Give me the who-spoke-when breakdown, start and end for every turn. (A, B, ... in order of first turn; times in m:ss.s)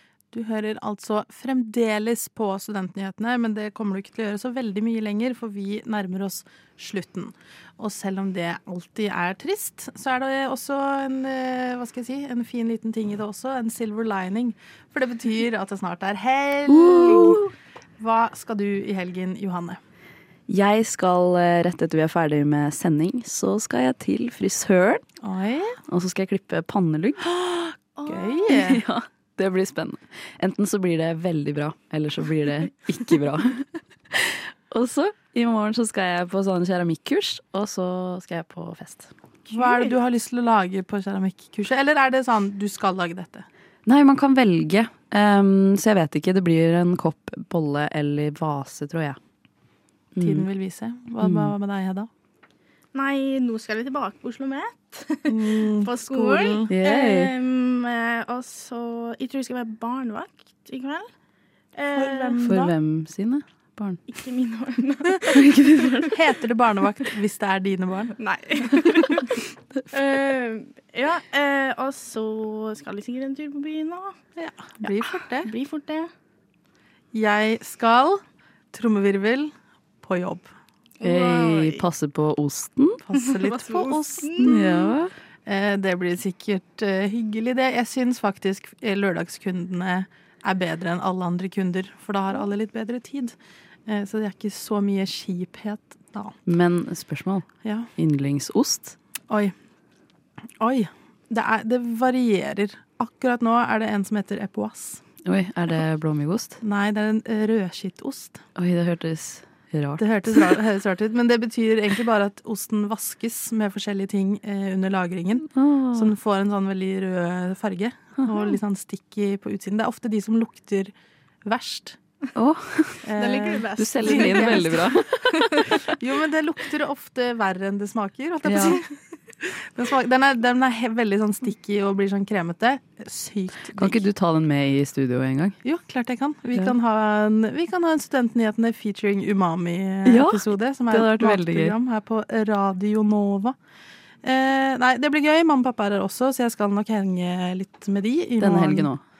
0:00.3-0:17.4 A
0:16.7-0:17.4 B
0:18.0-0:19.8 A
0:20.5-0:25.0 B
0:25.2-0:25.8 A
0:25.9-0:27.2 B
0:27.3-0:28.8 A
0:28.0-0:28.5 C
0:28.5-0:39.1 B
0:39.5-0:43.5 A
0:39.5-0:40.0 C
0:43.8-0:49.2 B
0:50.1-0:50.4 B
0:50.2-0:52.1 A
0:51.2-0:51.5 B
0:52.9-1:01.1 C
0:55.3-0:56.7 A
0:56.7-0:57.3 B
1:01.7-1:02.4 C
1:01.9-1:02.7 A
1:02.4-1:04.0 B
1:04.1-1:06.2 C
1:06.1-1:08.1 A
1:08.2-1:09.3 C
1:09.9-1:14.2 C
1:14.4-1:15.5 A
1:14.8-1:16.1 C
1:17.1-1:18.2 A
1:18.7-1:20.5 A
1:21.0-1:21.8 C
1:21.0-1:23.0 B
1:23.1-1:24.8 A
1:23.1-1:24.9 C
1:24.4-1:25.1 B
1:25.4-1:33.3 A
1:33.9-1:36.3 A
1:36.4-1:39.0 B
1:39.3-1:39.5 A
1:40.6-1:45.0 A
1:45.2-1:46.6 B
1:46.6-1:48.4 A
1:48.6-1:50.5 B
1:50.0-2:00.9 A
1:55.5-1:56.1 B
2:01.4-2:02.0 A
2:02.4-2:03.1 B
2:03.0-2:04.8 A
2:03.1-2:05.9 C
2:03.7-2:05.7 B
2:05.9-2:08.9 A
2:08.4-2:08.8 B
2:09.4-2:14.0 A
2:13.8-2:15.6 B
2:15.6-2:23.6 A
2:20.0-2:21.7 B
2:24.2-2:28.9 A
2:28.4-2:29.0 B